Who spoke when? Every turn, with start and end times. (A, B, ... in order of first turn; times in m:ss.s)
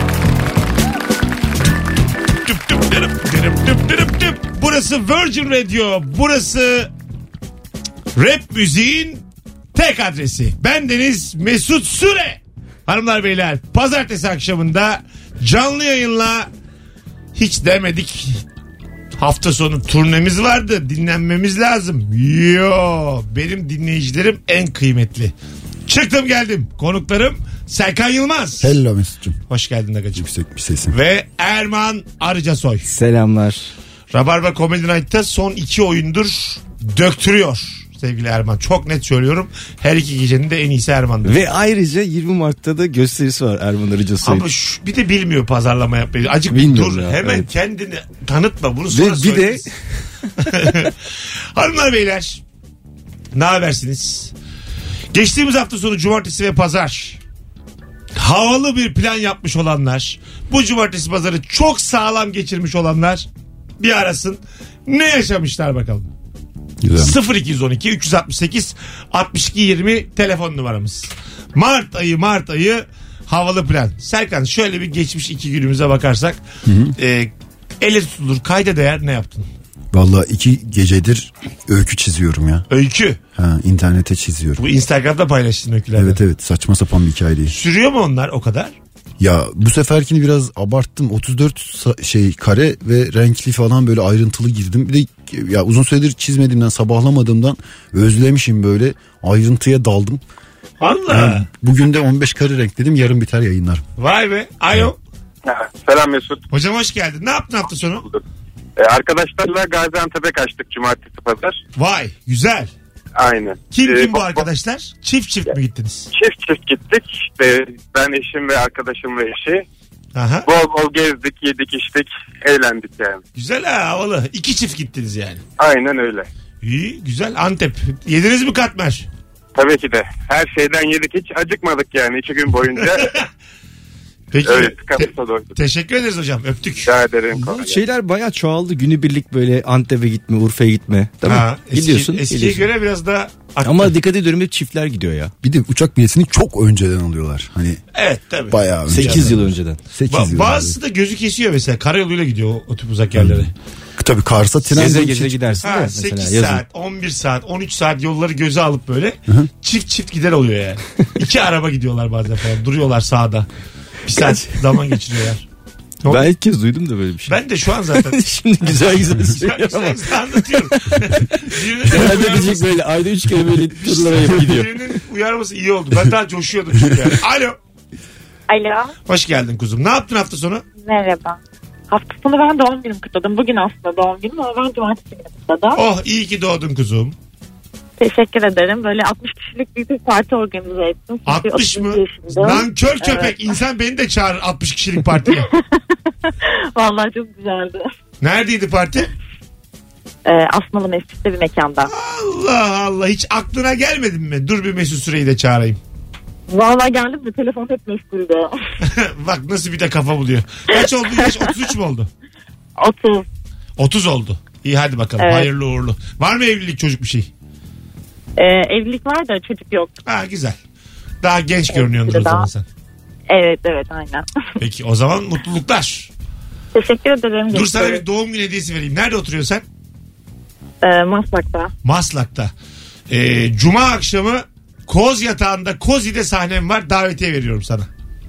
0:02.5-0:06.9 A
0:08.2-0:16.5 A
0:17.4-0:18.4 A
0:19.2-0:25.3 A
0:25.9-0:28.7 A
0:28.6-0:29.4 B
0:29.5-0:30.3 A
0:30.2-0:31.0 B
0:30.9-0:32.8 A
0:32.8-0:33.7 C
0:34.1-0:41.4 A
0:41.2-0:44.4 C
0:44.2-0:49.7 A
0:46.5-0:47.5 C
0:48.9-0:49.7 C
0:50.4-0:50.9 A
0:51.6-0:52.4 A
0:53.3-0:54.3 A
0:55.1-0:57.2 A
0:58.2-1:03.3 A
1:03.8-1:06.1 A
1:06.8-1:07.2 B
1:07.0-1:16.4 A
1:16.7-1:17.0 B
1:17.0-1:19.5 A
1:19.9-1:22.7 B
1:22.7-1:23.2 A
1:23.4-1:24.6 B
1:24.6-1:26.2 A
1:26.0-1:27.5 B
1:27.5-1:28.7 A
1:29.2-1:40.2 B
1:40.8-1:41.5 A
1:41.1-1:43.8 B
1:44.0-1:45.0 A
1:45.5-1:46.4 D
1:46.5-1:48.1 A
1:48.8-1:51.6 D
1:51.8-1:52.7 A
1:53.2-1:54.4 D
1:53.7-1:56.1 A
1:56.1-1:59.6 D
2:00.2-2:00.5 A
2:00.4-2:03.2 D
2:03.4-2:05.4 A
2:05.6-2:06.3 D
2:06.6-2:09.1 A
2:09.6-2:13.2 D
2:12.8-2:13.2 A
2:14.3-2:16.9 A
2:14.4-2:15.5 D
2:16.8-2:17.8 D
2:17.3-2:22.7 C
2:21.2-2:23.9 A
2:23.6-2:25.3 C
2:25.4-2:27.8 B
2:27.9-2:29.3 A
2:28.5-2:30.8 B
2:28.9-2:29.8 C
2:30.1-2:33.5 A
2:33.2-2:35.6 B
2:34.7-2:36.6 C
2:35.6-2:43.5 A
2:44.1-2:45.4 A
2:44.1-2:44.9 C
2:46.1-2:47.4 C
2:47.3-2:48.2 A
2:47.9-2:50.9 C
2:49.2-2:52.7 A
2:51.4-2:54.7 C
2:53.7-2:57.6 A
2:58.5-2:58.9 E
2:59.1-3:00.6 A
3:00.8-3:01.4 E
3:01.9-3:05.8 E
3:05.8-3:07.2 A
3:08.0-3:13.4 E
3:11.3-3:15.5 A
3:16.3-3:17.9 E
3:18.2-3:19.1 A
3:20.3-3:21.9 E
3:21.9-3:25.8 A
3:26.5-3:28.5 E
3:28.8-3:32.1 A
3:30.7-3:31.3 E
3:32.8-3:33.2 E
3:33.8-3:37.3 A
3:35.2-3:35.5 E
3:38.4-3:39.9 E
3:40.0-3:40.6 A
3:41.2-3:42.6 A
3:41.7-3:42.5 E
3:43.3-3:44.3 E
3:44.6-3:46.1 A
3:46.7-3:48.0 E
3:47.5-3:49.6 A
3:50.8-3:51.7 E
3:51.8-3:52.5 A
3:53.1-3:57.9 A